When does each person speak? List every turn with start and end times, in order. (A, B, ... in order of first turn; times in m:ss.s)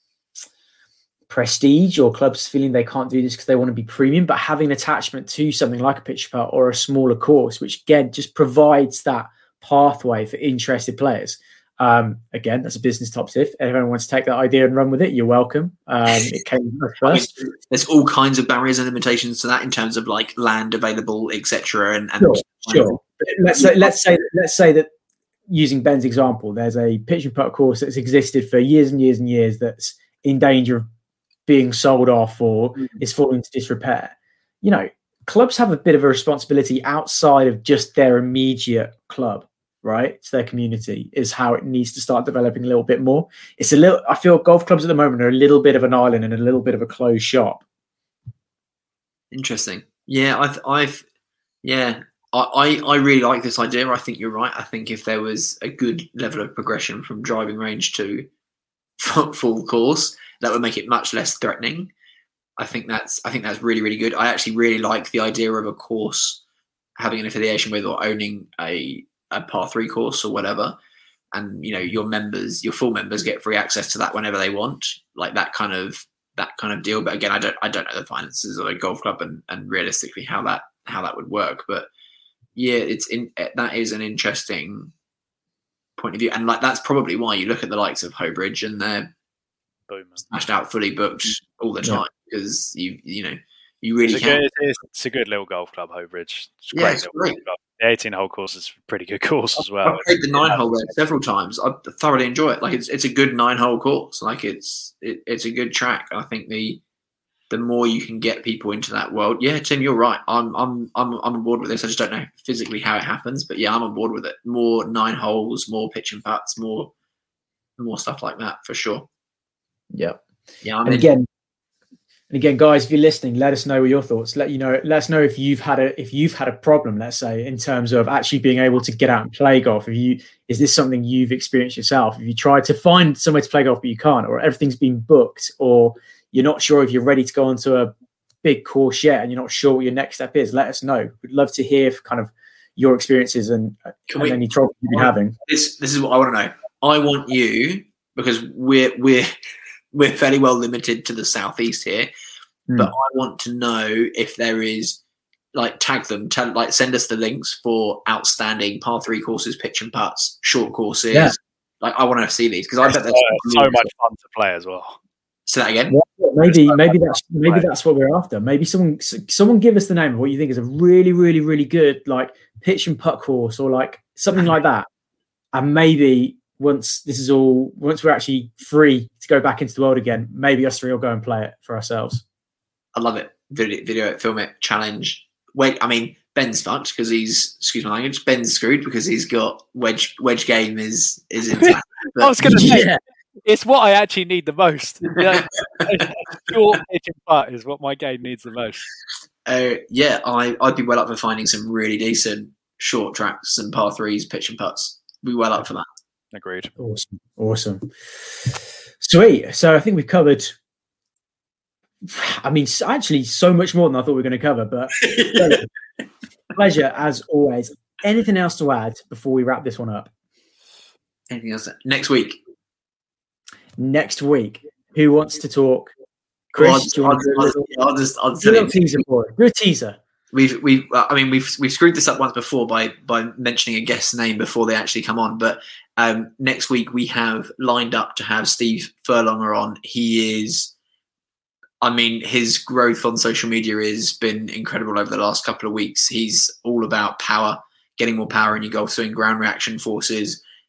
0:01.3-0:17.3 A
0:17.0-0:23.9 B
0:22.2-0:24.9 A
0:25.5-0:30.9 A
0:31.4-0:47.6 A
0:49.3-0:51.0 B
0:51.6-0:58.3 B
0:59.0-1:01.9 B
1:02.6-1:06.4 B
1:07.0-1:10.8 B
1:11.3-1:21.9 B
1:22.6-1:24.9 B
1:26.0-1:29.1 B
1:29.9-1:30.2 C
1:30.3-1:34.4 B
1:34.0-1:40.6 C
1:36.7-1:37.4 B
1:39.8-1:46.8 B
1:47.5-1:56.9 B
1:57.8-1:59.1 B
1:59.9-2:00.2 A
2:00.6-2:01.1 B
2:00.8-2:01.3 A
2:02.3-2:25.4 A
2:24.1-2:24.4 B
2:24.9-2:29.3 B
2:29.9-2:32.1 B
2:32.7-2:32.9 A
2:32.8-2:35.0 B
2:35.5-2:43.9 B
2:41.1-2:41.4 A
2:42.8-2:45.0 C
2:45.5-2:45.9 B
2:45.9-2:54.9 A
2:47.2-2:47.7 C
2:55.5-3:02.2 A
3:02.9-3:12.8 B
3:11.6-3:12.9 C
3:12.4-3:13.0 A
3:13.4-3:18.8 C
3:15.2-3:15.8 B
3:19.4-3:25.8 B
3:26.3-3:26.7 C
3:26.8-3:30.6 A
3:32.0-3:35.7 A
3:35.0-3:35.6 B
3:36.5-3:40.1 A
3:41.3-3:42.4 B
3:43.8-3:45.9 A
3:46.5-3:48.8 B
3:46.5-3:47.7 A
3:48.4-3:50.0 A
3:50.3-4:00.7 B
4:01.8-4:10.4 B